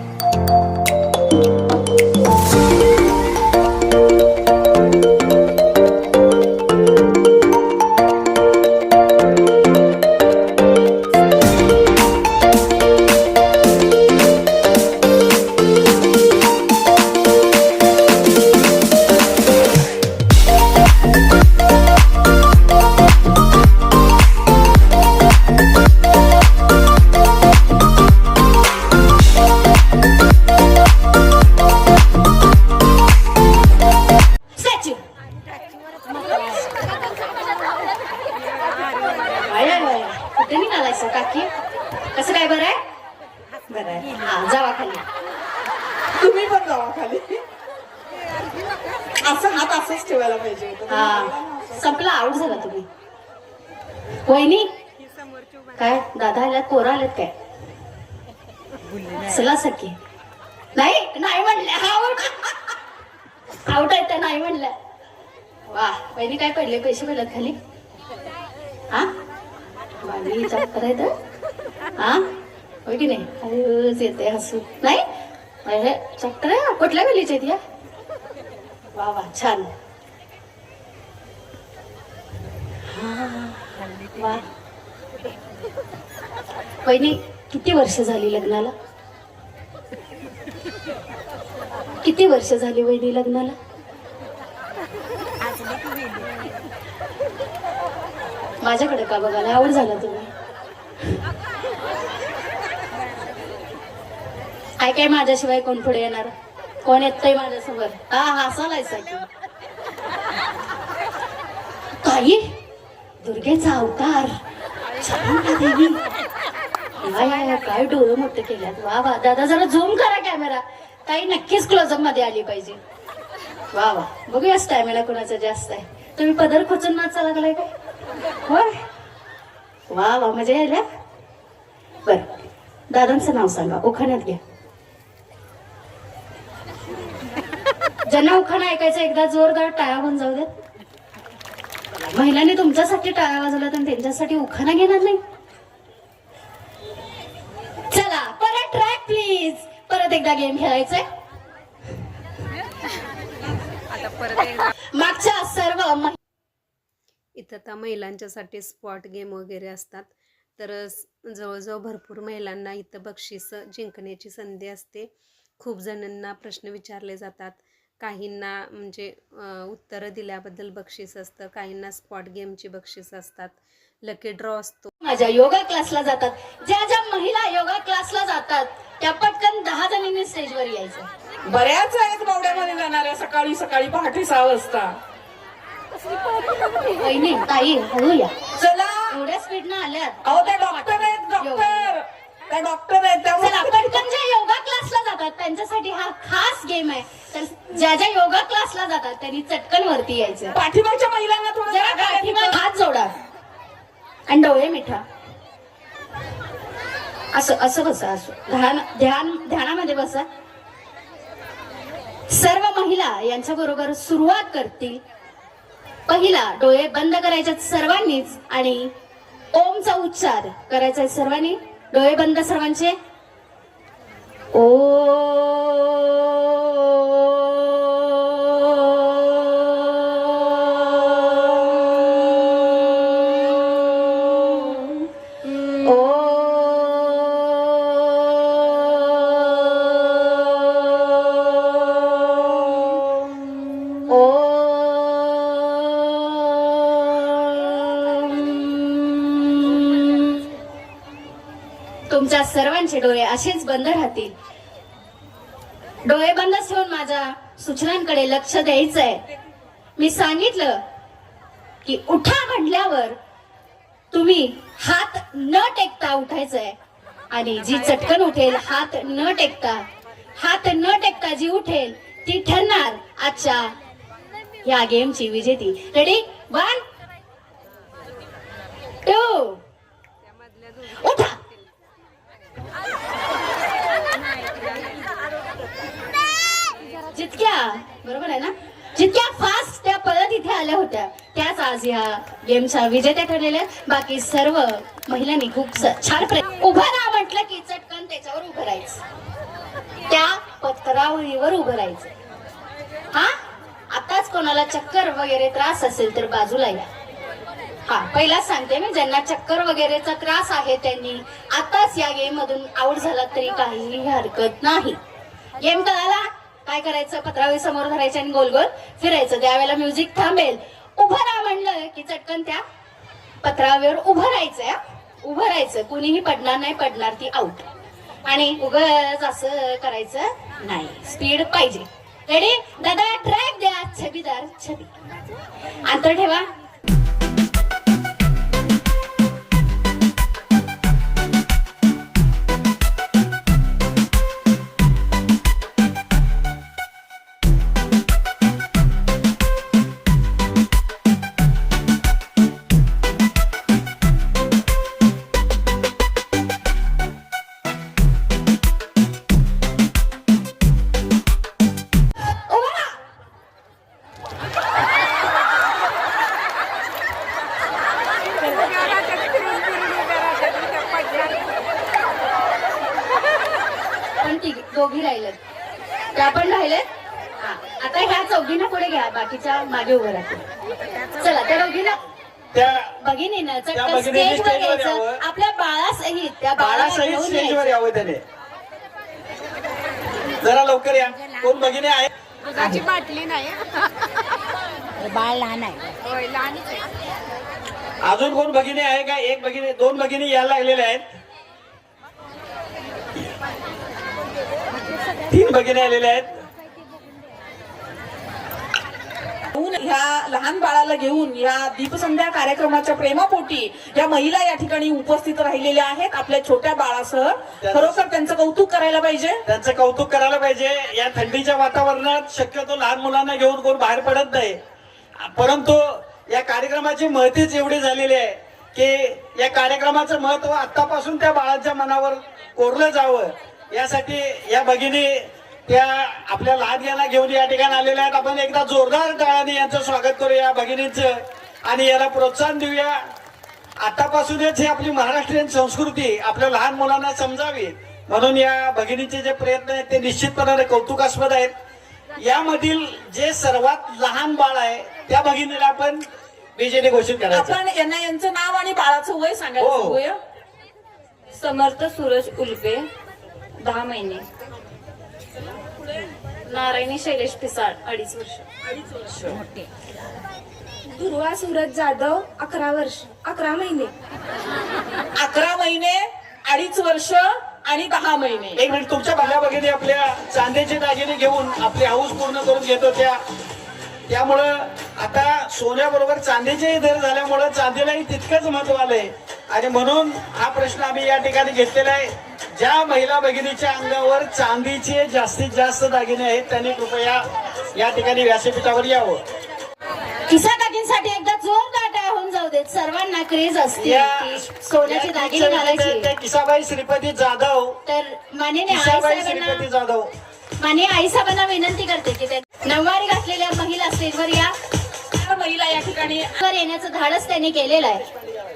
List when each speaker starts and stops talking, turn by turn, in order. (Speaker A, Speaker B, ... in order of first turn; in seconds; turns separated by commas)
Speaker A: 34.5-35.0, Speaker A: 39.4-41.5, Speaker A: 42.1-42.8, Speaker A: 43.7-45.0, Speaker B: 46.2-47.4, Speaker B: 49.2-51.6, Speaker A: 50.9-52.9, Speaker A: 54.2-54.7, Speaker A: 55.8-57.3, Speaker A: 59.2-60.0, Speaker A: 60.8-62.7, Speaker A: 63.7-64.7, Speaker A: 65.7-67.6, Speaker A: 70.0-71.1, Speaker A: 72.0-72.2, Speaker A: 72.8-75.0, Speaker A: 75.7-77.6, Speaker A: 79.0-79.7, Speaker A: 82.9-84.5, Speaker A: 86.8-88.7, Speaker A: 92.0-93.6, Speaker A: 98.6-100.3, Speaker A: 104.8-106.3, Speaker A: 106.8-109.3, Speaker A: 112.0-112.5, Speaker A: 113.2-114.3, Speaker A: 115.0-116.0, Speaker A: 117.0-122.8, Speaker A: 123.7-127.7, Speaker A: 128.5-128.8, Speaker A: 129.9-130.8, Speaker A: 132.1-132.4, Speaker A: 132.9-134.4, Speaker A: 138.1-140.5, Speaker A: 142.1-145.2, Speaker A: 147.9-151.1, Speaker A: 154.6-156.2, Speaker C: 157.4-174.9, Speaker A: 175.0-181.1, Speaker B: 181.5-185.0, Speaker A: 187.0-188.4, Speaker B: 188.6-189.2, Speaker A: 189.1-191.9, Speaker B: 190.2-194.0, Speaker A: 193.4-200.6, Speaker B: 200.5-202.6, Speaker A: 201.7-203.1, Speaker A: 204.3-205.0, Speaker A: 207.3-210.3, Speaker A: 212.3-215.0, Speaker A: 216.1-218.9, Speaker A: 219.5-223.0, Speaker A: 224.5-235.1, Speaker A: 235.8-243.0, Speaker A: 244.1-250.5, Speaker A: 252.1-254.3, Speaker A: 256.1-259.2, Speaker A: 260.0-260.8, Speaker A: 261.9-263.2, Speaker A: 264.1-266.8, Speaker A: 267.3-269.9, Speaker A: 270.4-273.8, Speaker A: 274.6-276.8, Speaker A: 279.1-279.6, Speaker A: 280.9-281.4, Speaker A: 287.1-299.0, Speaker A: 300.1-302.1, Speaker A: 303.9-306.9, Speaker A: 307.9-315.0, Speaker A: 315.6-322.6, Speaker A: 323.4-327.7, Speaker A: 328.2-334.9, Speaker A: 335.9-336.5, Speaker A: 374.2-375.4, Speaker A: 376.1-376.9, Speaker A: 377.4-380.4, Speaker A: 381.1-382.0, Speaker D: 382.5-383.0, Speaker A: 383.0-387.7, Speaker D: 383.7-385.2, Speaker D: 386.6-388.2, Speaker D: 390.4-392.1, Speaker E: 393.1-393.5, Speaker D: 398.0-401.1, Speaker D: 405.3-406.3, Speaker B: 409.5-419.4, Speaker D: 417.6-418.0, Speaker D: 419.5-424.6, Speaker D: 425.2-443.1, Speaker D: 443.8-451.5, Speaker D: 452.2-457.6, Speaker B: 457.3-460.2, Speaker D: 459.6-460.0, Speaker B: 461.3-462.9, Speaker B: 463.6-464.2, Speaker A: 466.5-468.4, Speaker B: 468.7-469.4, Speaker E: 471.0-473.9, Speaker B: 475.1-478.6, Speaker D: 478.6-483.2, Speaker D: 484.1-499.2, Speaker A: 500.3-506.1, Speaker D: 503.8-507.8, Speaker A: 507.9-509.7, Speaker D: 508.7-510.1, Speaker A: 510.6-514.5, Speaker B: 515.1-516.3, Speaker A: 516.4-518.1